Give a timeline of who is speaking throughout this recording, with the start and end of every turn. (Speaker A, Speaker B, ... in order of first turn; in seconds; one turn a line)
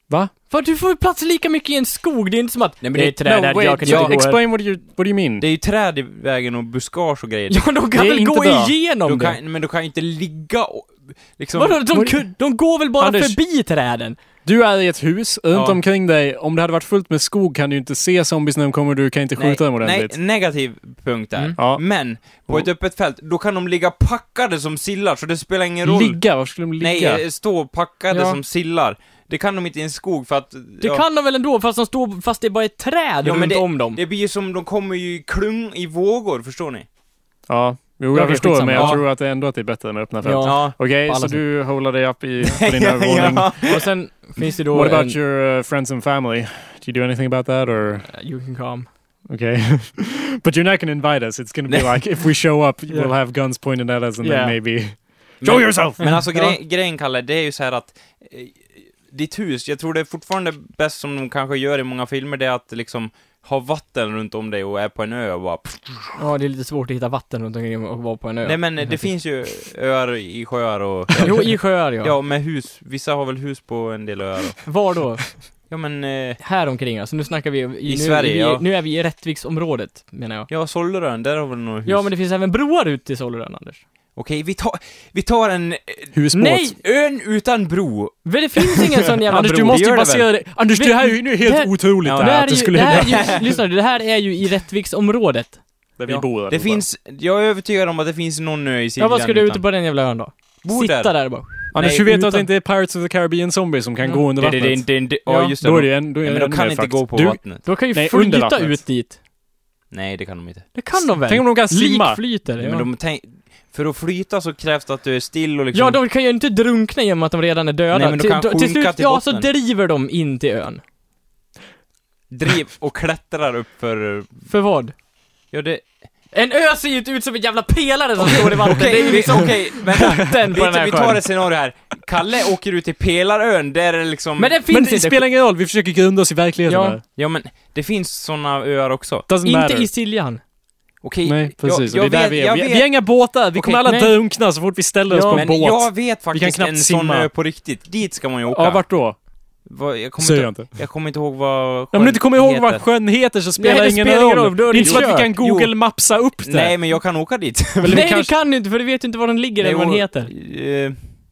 Speaker A: 0.5-4.5
Speaker B: 2.8-4.2
Speaker C: 3.2-5.5
Speaker B: 5.4-7.8
Speaker A: 7.5-9.4
Speaker C: 8.0-8.7
Speaker B: 9.0-11.8
Speaker A: 11.6-14.2
Speaker C: 11.9-13.4
Speaker C: 14.4-20.2
Speaker B: 15.5-15.8
Speaker B: 19.4-31.0
Speaker C: 21.6-22.7
Speaker C: 25.8-27.2
Speaker A: 28.1-28.4
Speaker A: 30.8-34.0
Speaker B: 33.2-36.9
Speaker C: 37.5-43.6
Speaker A: 38.1-39.0
Speaker B: 38.7-39.0
Speaker A: 40.2-41.5
Speaker B: 40.4-40.8
Speaker B: 42.5-43.9
Speaker A: 43.6-45.2
Speaker C: 44.7-48.1
Speaker A: 48.1-48.9
Speaker C: 49.3-56.1
Speaker B: 51.7-52.0
Speaker A: 52.9-53.2
Speaker A: 54.2-54.6
Speaker B: 55.4-66.1
Speaker A: 56.0-56.5
Speaker A: 66.2-69.1
Speaker B: 68.4-75.0
Speaker A: 71.2-72.2
Speaker A: 74.7-75.7
Speaker B: 75.7-76.4
Speaker A: 76.4-80.5
Speaker B: 77.8-78.6
Speaker B: 80.5-82.1
Speaker A: 81.8-83.8
Speaker B: 84.2-86.1
Speaker C: 86.1-86.8
Speaker A: 86.4-86.8
Speaker B: 86.8-88.8
Speaker A: 88.2-90.0
Speaker C: 89.3-93.3
Speaker B: 89.4-90.3
Speaker A: 90.7-95.7
Speaker B: 92.0-93.5
Speaker C: 96.0-96.9
Speaker B: 96.1-99.7
Speaker A: 99.0-102.5
Speaker B: 100.6-102.1
Speaker C: 101.7-108.9
Speaker B: 104.4-107.7
Speaker A: 105.3-105.5
Speaker A: 107.7-109.2
Speaker B: 109.9-110.7
Speaker A: 110.8-112.9
Speaker C: 110.9-112.2
Speaker B: 112.6-116.0
Speaker A: 115.7-120.8
Speaker B: 117.9-119.5
Speaker B: 122.3-124.5
Speaker A: 124.5-125.0
Speaker B: 125.5-125.9
Speaker A: 126.3-131.2
Speaker B: 128.2-134.6
Speaker A: 134.4-135.3
Speaker C: 134.7-137.0
Speaker A: 136.7-137.0
Speaker B: 137.2-139.3
Speaker C: 139.3-139.9
Speaker A: 139.4-140.4
Speaker B: 141.0-143.8
Speaker C: 141.2-147.3
Speaker A: 143.8-144.2
Speaker A: 145.1-145.5
Speaker B: 145.3-148.9
Speaker C: 148.5-149.2
Speaker B: 149.6-152.9
Speaker C: 150.2-150.7
Speaker C: 151.9-157.1
Speaker A: 153.6-155.4
Speaker B: 154.8-158.1
Speaker C: 157.8-158.3
Speaker A: 157.9-160.3
Speaker B: 159.6-161.0